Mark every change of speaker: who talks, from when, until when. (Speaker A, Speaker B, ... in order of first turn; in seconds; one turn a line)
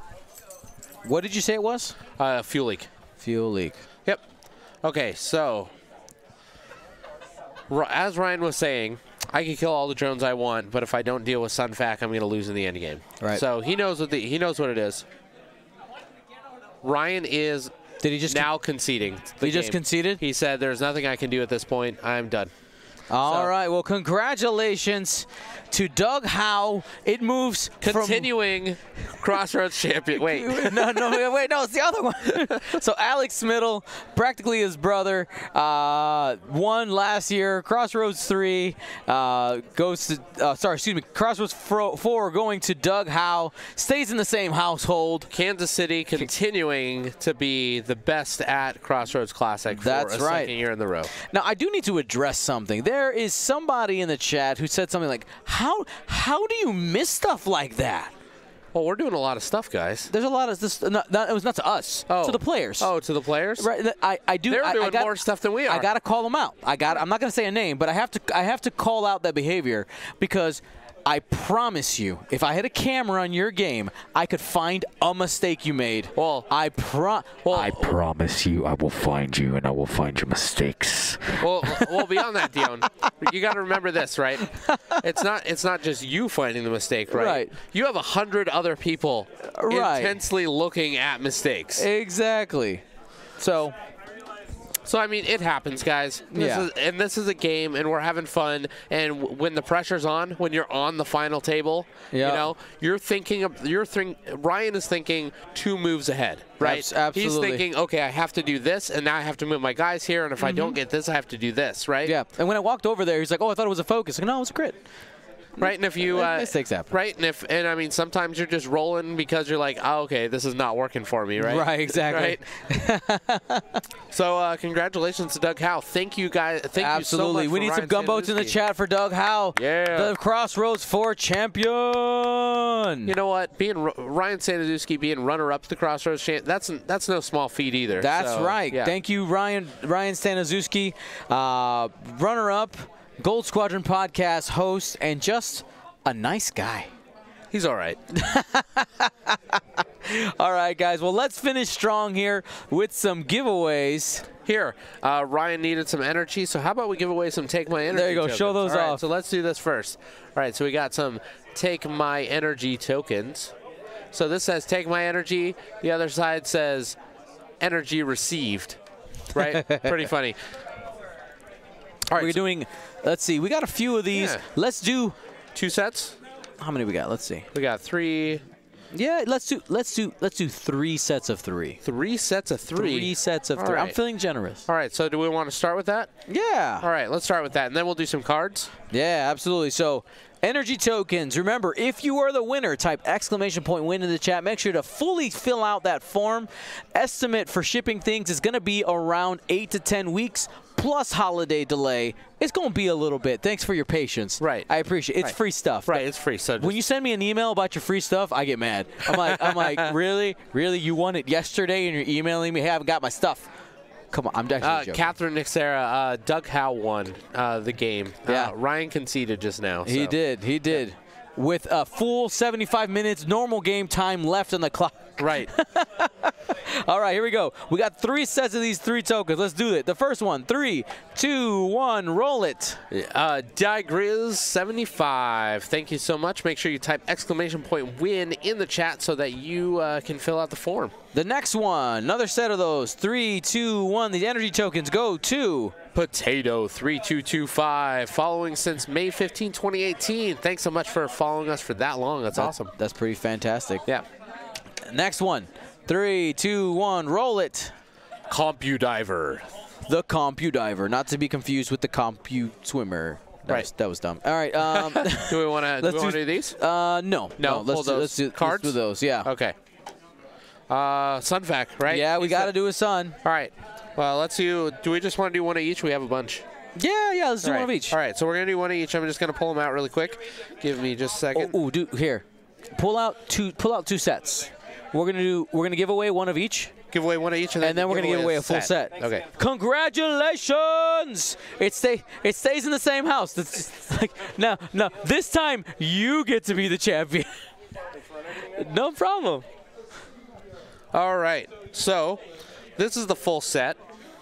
Speaker A: 1.0-2.0
Speaker B: 2.2-2.9
Speaker A: 3.2-3.8
Speaker B: 4.8-5.7
Speaker B: 7.7-15.1
Speaker B: 16.8-17.7
Speaker A: 18.0-18.5
Speaker B: 18.3-22.5
Speaker A: 19.4-20.2
Speaker A: 23.1-28.3
Speaker B: 23.2-23.5
Speaker B: 27.8-31.1
Speaker A: 30.1-45.3
Speaker B: 32.4-32.7
Speaker B: 45.3-51.1
Speaker A: 49.7-50.5
Speaker A: 51.1-58.1
Speaker B: 58.7-60.1
Speaker A: 60.1-62.9
Speaker B: 62.1-63.7
Speaker A: 63.6-77.8
Speaker B: 64.5-65.9
Speaker B: 76.2-76.5
Speaker B: 77.5-78.0
Speaker C: 77.6-81.5
Speaker B: 81.4-91.9
Speaker A: 84.5-85.0
Speaker A: 87.1-87.6
Speaker A: 89.4-90.2
Speaker A: 91.8-92.8
Speaker A: 93.4-93.8
Speaker B: 94.8-112.2
Speaker A: 96.3-96.7
Speaker A: 102.1-102.5
Speaker A: 106.6-107.6
Speaker A: 110.4-110.8
Speaker A: 112.0-114.8
Speaker A: 115.6-116.9
Speaker B: 115.6-122.4
Speaker A: 121.4-123.8
Speaker B: 124.1-128.6
Speaker A: 126.8-133.1
Speaker B: 129.6-130.2
Speaker B: 133.1-138.9
Speaker A: 138.0-146.9
Speaker B: 147.5-148.0
Speaker A: 148.1-154.3
Speaker B: 154.4-163.6
Speaker A: 157.9-159.0
Speaker B: 164.1-167.0
Speaker B: 167.6-168.8
Speaker B: 169.3-170.4
Speaker A: 169.4-169.9
Speaker B: 172.1-172.4
Speaker A: 172.1-175.2
Speaker B: 174.1-174.5
Speaker B: 175.6-176.2
Speaker A: 176.6-177.5
Speaker B: 177.5-178.4
Speaker A: 178.9-181.8
Speaker B: 181.8-184.0
Speaker A: 182.7-184.7
Speaker B: 184.7-186.1
Speaker A: 186.3-186.9
Speaker B: 186.8-188.7
Speaker A: 188.9-206.1
Speaker B: 204.4-204.7
Speaker B: 205.9-206.8
Speaker A: 206.6-213.5
Speaker B: 209.2-209.9
Speaker A: 214.1-215.1
Speaker B: 214.6-220.2
Speaker A: 218.3-218.5
Speaker A: 219.9-232.8
Speaker B: 225.2-225.5
Speaker B: 232.9-240.9
Speaker A: 241.1-245.8
Speaker B: 245.9-252.7
Speaker A: 252.3-253.8
Speaker A: 254.8-257.7
Speaker B: 258.3-259.5
Speaker A: 259.9-269.3
Speaker B: 264.6-266.6
Speaker B: 267.4-269.6
Speaker B: 270.7-272.5
Speaker A: 271.9-273.2
Speaker B: 273.2-276.4
Speaker A: 276.8-278.0
Speaker B: 277.4-281.6
Speaker A: 281.3-286.7
Speaker B: 286.9-289.3
Speaker A: 287.6-297.5
Speaker A: 298.3-299.5
Speaker B: 300.9-303.8